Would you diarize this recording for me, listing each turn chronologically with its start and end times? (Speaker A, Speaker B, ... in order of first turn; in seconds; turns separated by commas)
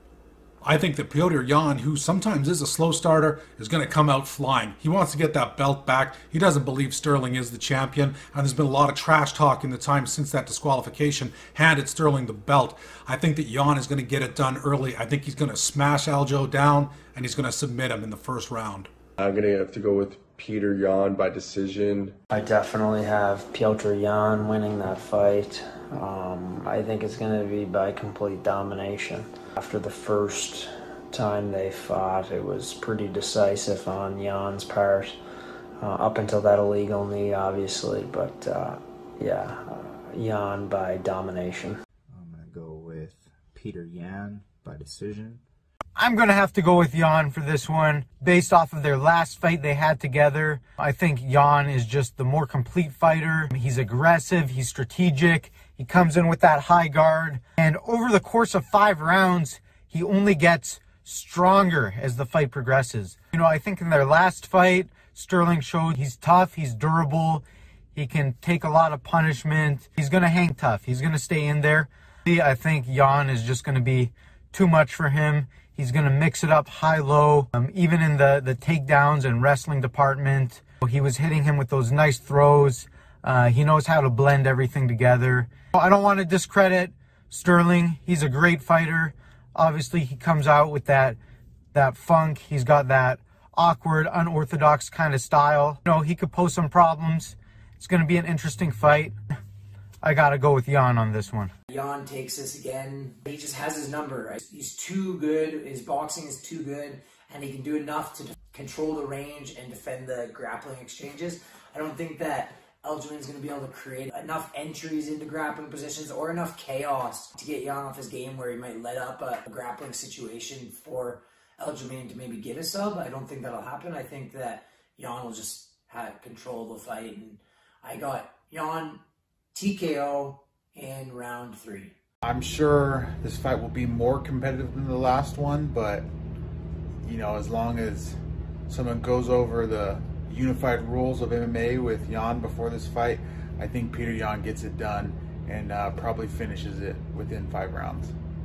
Speaker A: 0.6-18.9, Speaker B: 19.2-22.0, Speaker C: 22.3-35.1, Speaker C: 35.8-41.8, Speaker D: 42.1-45.4, Speaker E: 46.0-91.2, Speaker E: 91.7-99.2, Speaker E: 100.0-101.5, Speaker F: 101.7-129.0, Speaker F: 129.5-131.9, Speaker G: 132.2-136.1, Speaker G: 137.0-138.2, Speaker G: 138.7-148.1